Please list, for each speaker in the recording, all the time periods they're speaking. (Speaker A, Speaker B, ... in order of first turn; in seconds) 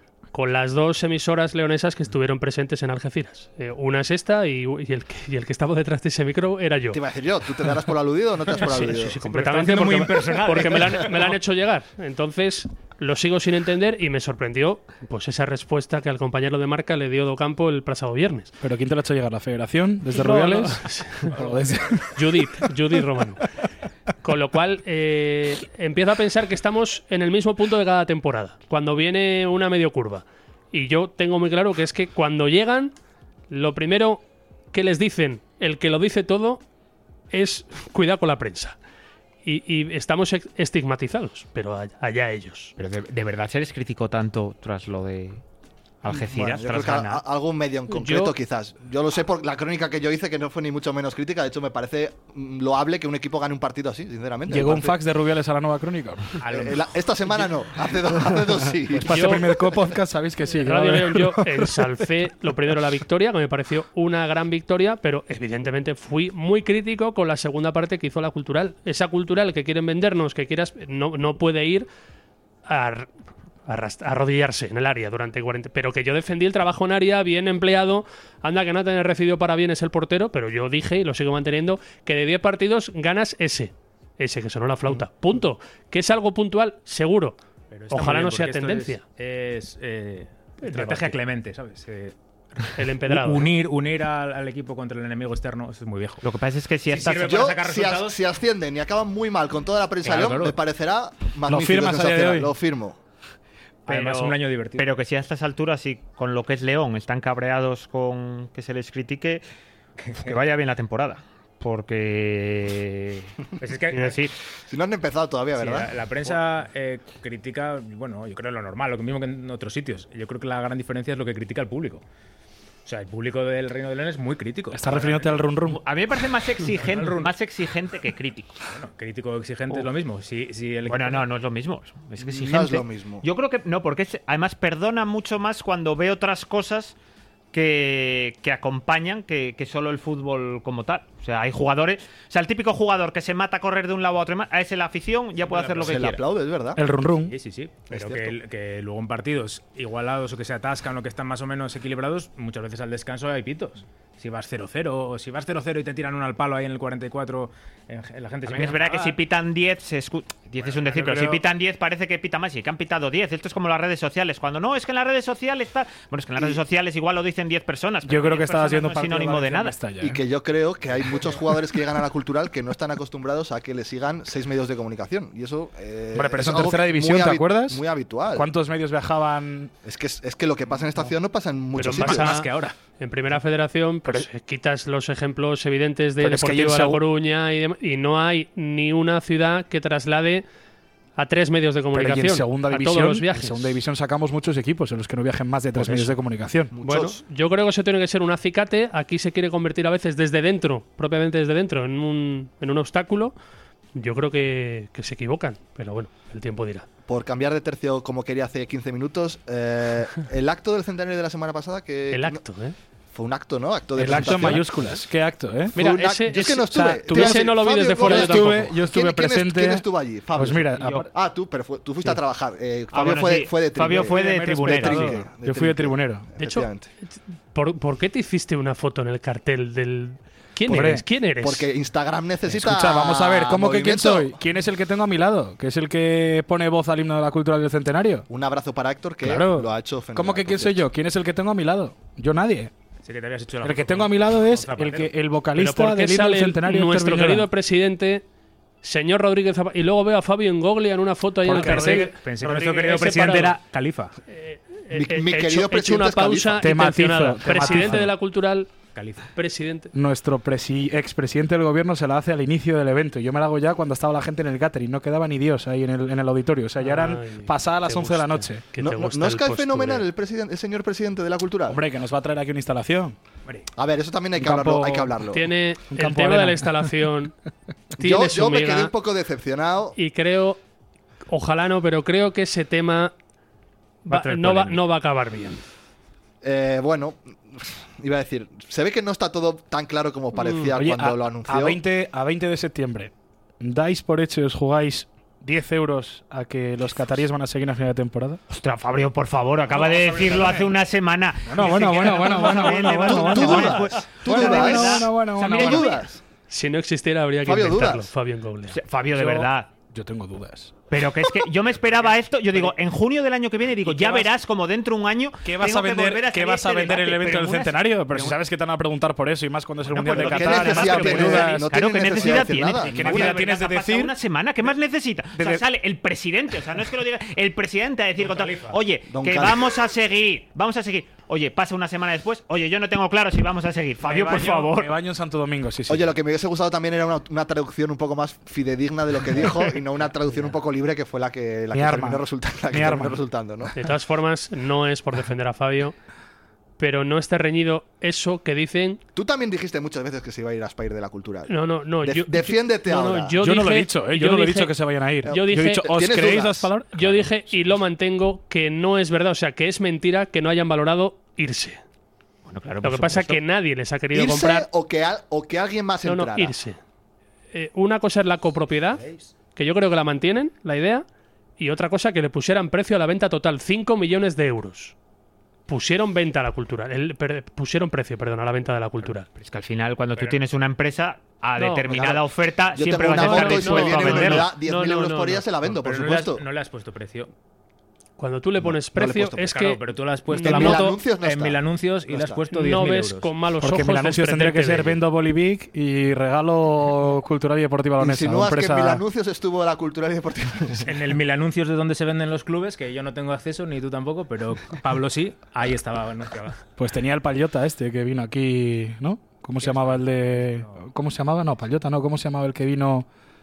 Speaker A: 0.3-7.0, 8.6-18.5, 20.1-21.3, 22.1-23.4, 24.2-32.9, 33.5-34.2, 34.7-36.6, 37.3-38.8, 39.5-42.7, 47.9-48.3, 59.0-59.4, 60.6-71.9, 72.7-73.1, 73.7-87.4, 87.9-89.0, 90.6-91.2, 92.8-93.5, 181.8-190.4, 191.2-193.8, 196.8-203.3, 204.0-206.9, 212.1-212.8, 215.8-218.6, 226.4-226.7, 227.5-231.7, 245.6-248.2, 248.8-253.6, 254.3-258.7, 259.4-259.9, 266.8-270.1, 275.3-277.4, 278.0-278.9, 280.0-280.6, 281.3-283.1, 284.1-285.6, 290.4-290.7, 303.4-304.0, 306.5-308.8, 343.8-345.9, 346.8-349.0, 351.5-355.9, 356.9-361.8, 362.8-364.7, 366.1-366.8, 367.5-369.0, 369.6-371.1, 371.6-374.9, 375.7-379.3, 381.6-381.8, 383.0-385.4, 388.2-391.0, 392.5-395.0
Speaker B: 6.9-9.2, 46.1-55.0, 56.5-59.7, 97.1-103.0, 114.7-116.4, 132.2-133.3, 145.8-146.8, 147.9-148.3, 170.0-178.5, 179.8-182.4, 196.7-197.2, 207.1-212.4, 213.1-215.0, 215.7-226.9, 231.4-234.4, 238.3-240.8, 254.9-256.7, 268.8-271.8, 273.8-275.5, 278.0-280.0, 286.4-291.8, 303.1-306.2, 307.4-308.1, 320.1-323.4, 329.1-329.8, 335.9-343.8, 349.1-353.4, 355.3-356.7, 364.1-366.6, 381.9-382.2, 382.7-386.4, 388.6-389.6, 390.4-392.4, 398.0-400.9
Speaker C: 9.2-11.4, 56.4-57.5, 87.7-96.2, 96.9-98.2, 100.0-100.6, 103.9-104.9, 110.0-110.3, 113.6-114.2, 115.5-122.0, 122.8-125.5, 126.7-127.3, 128.7-131.2, 145.4-146.2, 147.3-159.2, 160.6-161.3, 181.8-182.8, 243.1-245.1, 251.5-254.2, 258.9-259.3, 284.1-284.8, 328.2-328.8, 385.6-387.3, 389.5-393.3, 400.8-406.6, 409.6-410.9
Speaker D: 18.6-22.7, 54.5-56.4, 58.9-62.0, 101.5-102.5, 124.7-125.8, 146.8-147.4, 168.1-170.2, 176.1-179.7, 186.2-187.0, 191.9-196.7, 214.0-221.0, 224.0-226.3, 230.7-231.1, 232.5-238.3, 239.2-242.7, 243.6-247.5, 251.4-252.1, 256.6-258.1, 259.9-268.6, 271.7-273.2, 274.4-275.3, 275.9-276.9, 290.8-298.4, 300.2-300.5, 301.5-305.9, 309.1-310.8, 313.9-314.3, 315.4-324.1, 325.4-325.6, 334.0-336.1, 341.7-343.2, 353.4-357.6, 393.6-399.0, 406.8-413.1
Speaker E: 42.8-45.4, 46.0-47.2, 96.2-97.4, 103.9-109.4, 110.2-113.3, 113.9-114.3, 125.7-128.6, 130.9-136.9, 137.5-146.2, 158.5-169.8, 220.8-221.1, 222.9-225.2, 298.5-306.0, 308.7-309.7, 310.9-318.3, 319.9-334.9, 362.5-363.4, 379.4-384.6